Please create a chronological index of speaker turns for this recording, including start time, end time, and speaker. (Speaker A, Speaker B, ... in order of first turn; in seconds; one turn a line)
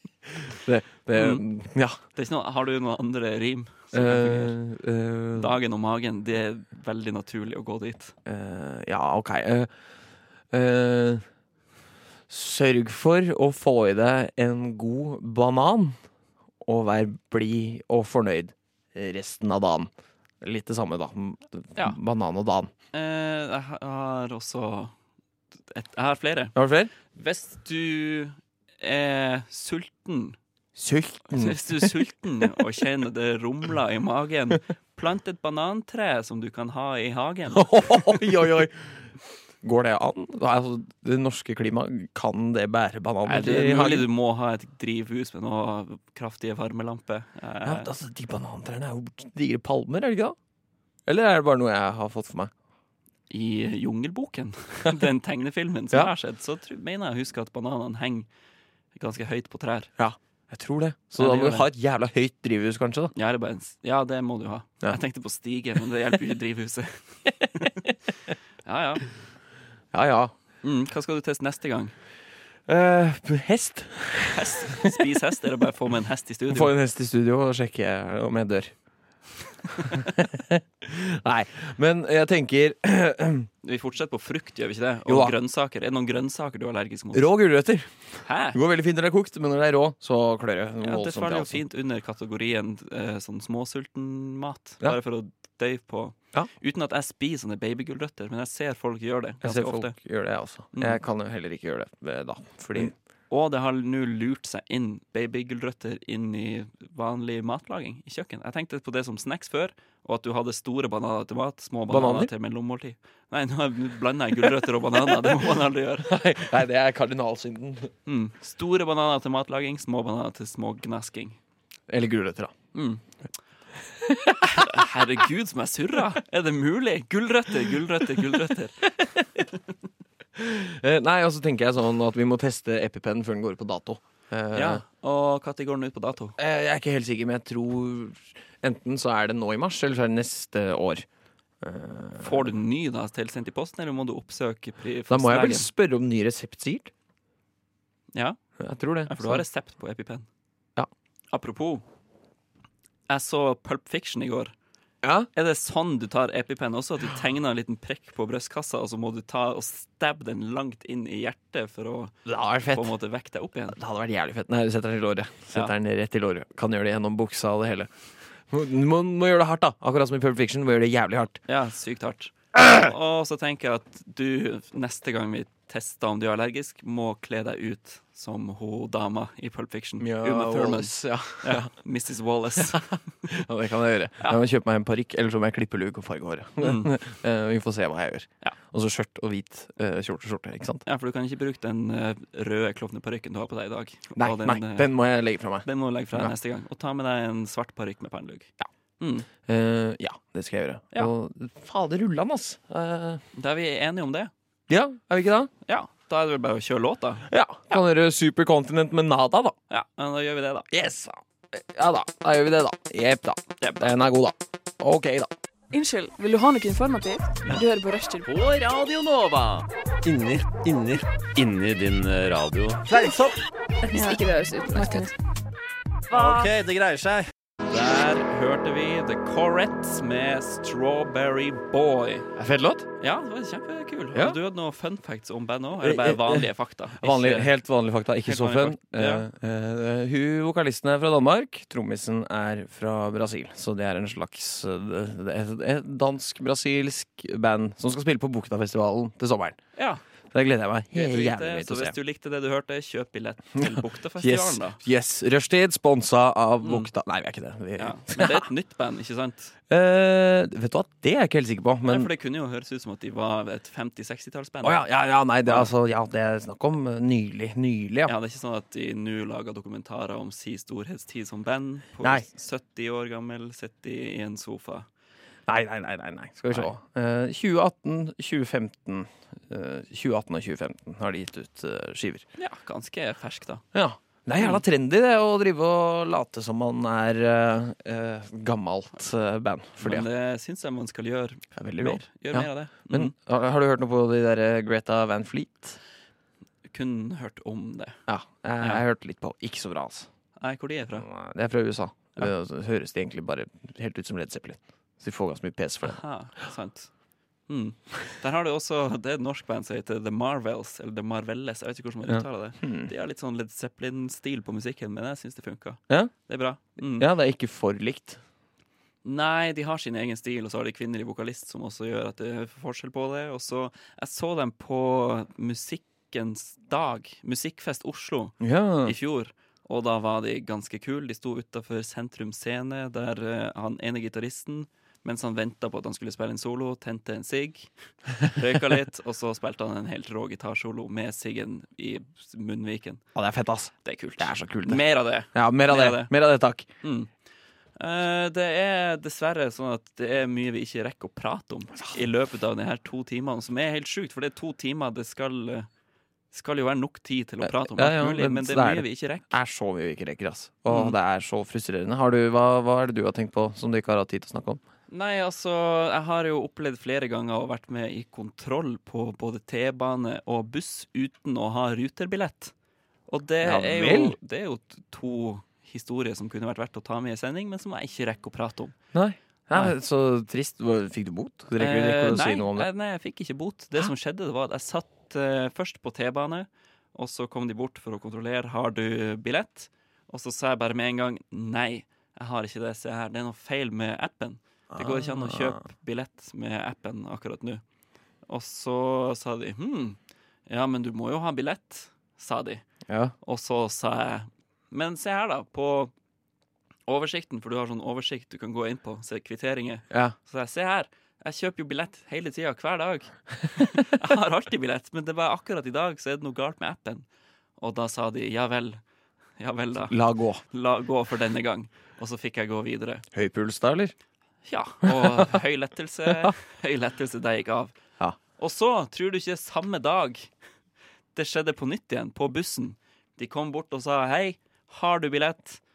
Speaker A: 0.5-2.0
Speaker B: 1.1-1.4
Speaker B: 2.1-4.5
Speaker A: 3.9-5.5
Speaker B: 5.3-8.1
Speaker A: 8.2-9.7
Speaker A: 10.5-11.2
Speaker A: 12.3-15.9
Speaker A: 16.6-22.7
Speaker B: 22.9-24.9
Speaker B: 25.7-26.5
Speaker A: 26.5-26.9
Speaker B: 27.1-30.4
Speaker A: 30.8-31.9
Speaker B: 31.3-38.2
Speaker A: 37.5-39.0
Speaker A: 39.6-44.1
Speaker B: 43.2-47.9
Speaker A: 47.6-50.4
Speaker A: 51.1-52.5
Speaker B: 53.3-58.3
Speaker B: 58.9-59.9
Speaker A: 60.0-63.1
Speaker B: 61.2-61.7
Speaker B: 63.1-67.9
Speaker B: 68.6-69.1
Speaker A: 69.9-70.3
Speaker B: 70.6-71.9
Speaker A: 72.7-74.9
Speaker B: 74.3-76.7
Speaker A: 76.5-78.7
Speaker A: 79.9-83.5
Speaker B: 83.6-87.3
Speaker A: 85.0-85.3
Speaker A: 87.1-91.6
Speaker B: 88.2-88.6
Speaker B: 90.8-100.0
Speaker A: 99.4-102.9
Speaker B: 100.7-101.0
Speaker B: 102.8-116.1
Speaker A: 111.9-112.3
Speaker A: 116.0-117.9
Speaker B: 118.0-121.4
Speaker A: 121.9-122.5
Speaker B: 122.7-123.0
Speaker A: 123.9-124.8
Speaker B: 124.4-129.4
Speaker A: 129.0-129.3
Speaker A: 130.3-134.8
Speaker B: 134.5-136.3
Speaker A: 136.4-141.1
Speaker A: 141.6-142.5
Speaker B: 142.2-145.7
Speaker A: 145.1-146.9
Speaker B: 148.1-148.4
Speaker A: 148.6-149.4
Speaker B: 149.1-150.3
Speaker B: 151.3-151.8
Speaker B: 153.1-154.5
Speaker A: 155.0-155.3
Speaker B: 155.3-162.1
Speaker A: 162.2-162.9
Speaker B: 162.7-163.8
Speaker A: 163.7-167.9
Speaker A: 168.4-171.4
Speaker B: 171.4-182.9
Speaker A: 180.0-181.7
Speaker A: 182.6-190.8
Speaker B: 186.6-186.9
Speaker B: 190.8-194.9
Speaker A: 194.2-196.3
Speaker B: 195.6-199.3
Speaker A: 199.4-203.2
Speaker B: 203.3-204.3
Speaker A: 204.7-205.5
Speaker B: 205.7-207.3
Speaker A: 207.3-209.5
Speaker B: 209.7-210.7
Speaker A: 210.7-215.3
Speaker B: 213.6-213.9
Speaker C: 215.7-218.3
Speaker D: 218.2-223.4
Speaker C: 223.8-225.1
Speaker D: 226.1-227.2
Speaker B: 227.7-232.3
Speaker A: 232.3-232.8
Speaker B: 233.0-237.5
Speaker A: 235.8-249.6
Speaker B: 238.2-239.2
Speaker B: 249.8-250.0
Speaker A: 250.3-251.9
Speaker B: 250.9-254.8
Speaker A: 253.6-258.5
Speaker B: 256.6-256.9
Speaker B: 257.8-259.5
Speaker A: 259.7-262.1
Speaker B: 261.8-264.8
Speaker A: 264.6-268.1
Speaker B: 265.4-265.7
Speaker B: 268.1-274.9
Speaker A: 275.5-282.2
Speaker B: 282.4-283.6
Speaker A: 283.7-290.1
Speaker B: 289.8-293.1
Speaker A: 291.5-295.8
Speaker B: 296.7-298.0
Speaker A: 298.1-300.1
Speaker B: 300.4-301.1
Speaker A: 301.0-306.0
Speaker B: 305.8-306.9
Speaker B: 307.5-317.1
Speaker A: 312.1-312.9
Speaker A: 316.9-318.2
Speaker B: 319.0-343.0
Speaker A: 328.4-328.9
Speaker A: 343.1-344.8
Speaker B: 343.8-346.1
Speaker A: 345.3-346.6
Speaker B: 346.8-347.1
Speaker B: 347.8-355.7
Speaker B: 356.3-359.4
Speaker A: 357.4-364.6
Speaker B: 360.7-360.9
Speaker B: 364.9-372.5
Speaker B: 373.1-378.8
Speaker A: 373.4-374.1
Speaker A: 378.9-382.7
Speaker B: 381.6-397.6
Speaker A: 394.7-395.6
Speaker B: 398.3-402.6
Speaker A: 402.9-403.1
Speaker B: 403.2-405.9
Speaker B: 406.9-417.1
Speaker B: 417.6-418.8
Speaker B: 419.4-419.9
Speaker A: 419.9-420.4
Speaker B: 420.5-423.0
Speaker A: 423.1-423.9
Speaker B: 424.5-427.7
Speaker A: 424.9-425.2
Speaker B: 428.4-430.3
Speaker B: 431.1-435.6